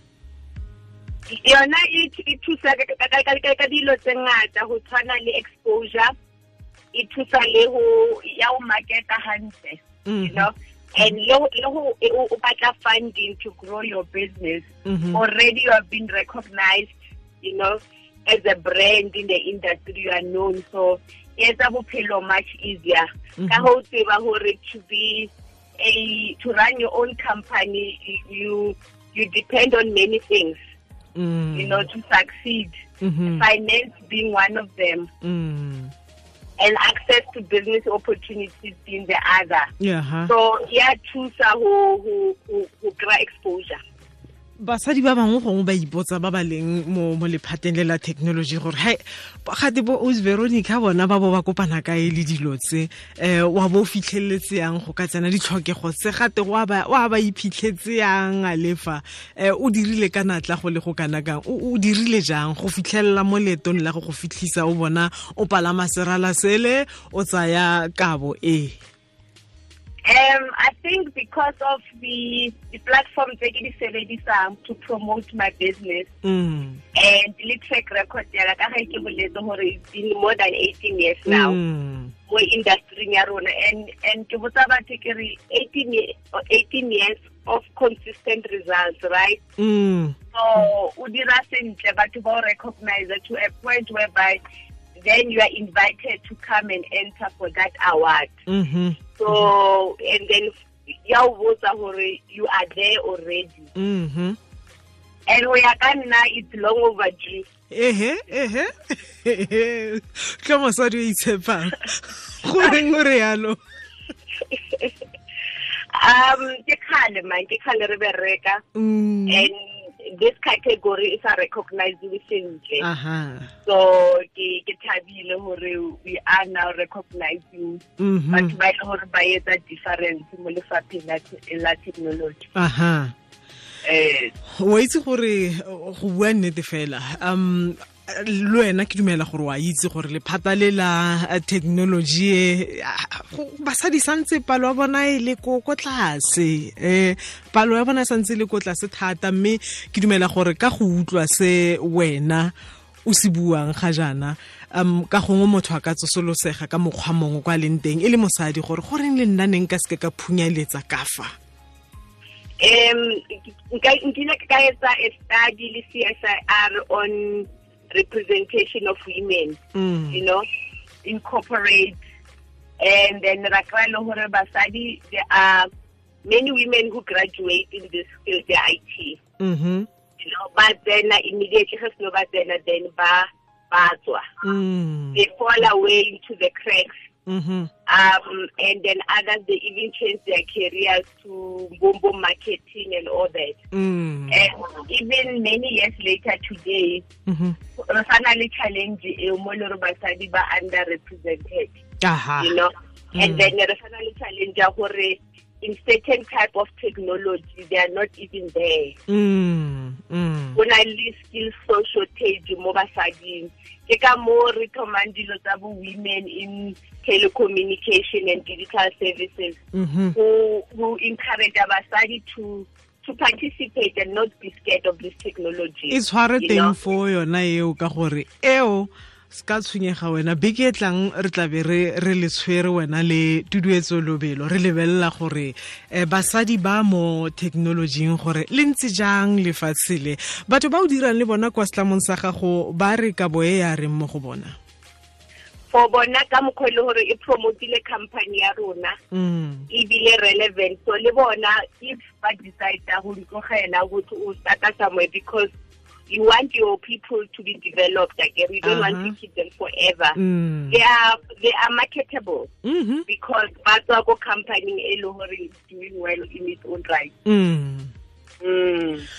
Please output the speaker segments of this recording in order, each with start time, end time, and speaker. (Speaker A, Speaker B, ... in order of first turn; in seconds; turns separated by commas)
Speaker A: 1.3-6.1, Speaker A: 6.9-30.6, Speaker B: 10.1-10.5, Speaker B: 14.9-15.2, Speaker B: 23.4-23.7, Speaker B: 31.2-31.9, Speaker A: 31.5-32.8, Speaker B: 33.0-33.5, Speaker A: 33.3-35.1, Speaker B: 35.2-35.9, Speaker A: 36.6-39.7, Speaker B: 39.8-40.3, Speaker A: 40.3-43.8, Speaker B: 44.6-68.8, Speaker A: 70.1-76.1, Speaker B: 76.2-76.8, Speaker A: 77.0-81.6, Speaker B: 81.3-82.1, Speaker A: 82.3-89.4, Speaker B: 89.6-90.2, Speaker A: 90.3-94.4, Speaker A: 95.0-98.3, Speaker B: 98.5-99.5, Speaker A: 99.2-103.7, Speaker B: 103.8-104.4, Speaker A: 105.3-107.5, Speaker B: 107.7-113.6, Speaker A: 114.4-115.0, Speaker A: 115.9-118.6, Speaker B: 118.8-119.5, Speaker A: 119.3-122.9, Speaker B: 122.8-123.5, Speaker A: 123.7-132.5, Speaker B: 128.0-128.6, Speaker B: 132.6-133.1, Speaker A: 133.8-134.3, Speaker B: 134.6-152.5, Speaker B: 153.1-161.3, Speaker A: 162.6-169.6, Speaker B: 169.8-170.2, Speaker A: 170.1-170.4, Speaker A: 171.0-172.0, Speaker A: 172.8-175.7, Speaker A: 176.2-179.2, Speaker B: 179.4-179.9, Speaker A: 180.2-184.3, Speaker B: 184.4-185.2, Speaker A: 185.1-186.9, Speaker B: 187.3-187.7, Speaker A: 187.9-193.6, Speaker B: 193.7-194.4, Speaker A: 194.3-197.1, Speaker B: 197.3-197.6, Speaker A: 197.8-201.8, Speaker B: 202.0-202.6, Speaker A: 202.4-209.0, Speaker B: 203.2-203.5, Speaker B: 209.1-210.6, Speaker A: 210.6-219.6, Speaker B: 219.7-220.2, Speaker A: 220.1-226.8, Speaker B: 225.9-244.6, Speaker A: 245.7-249.0, Speaker B: 249.1-249.7, Speaker A: 249.7-255.5, Speaker A: 256.1-260.2, Speaker B: 258.6-259.1, Speaker B: 260.2-260.8, Speaker A: 260.7-262.5, Speaker B: 262.6-263.1, Speaker A: 263.1-267.1, Speaker B: 267.3-267.9, Speaker A: 268.4-269.1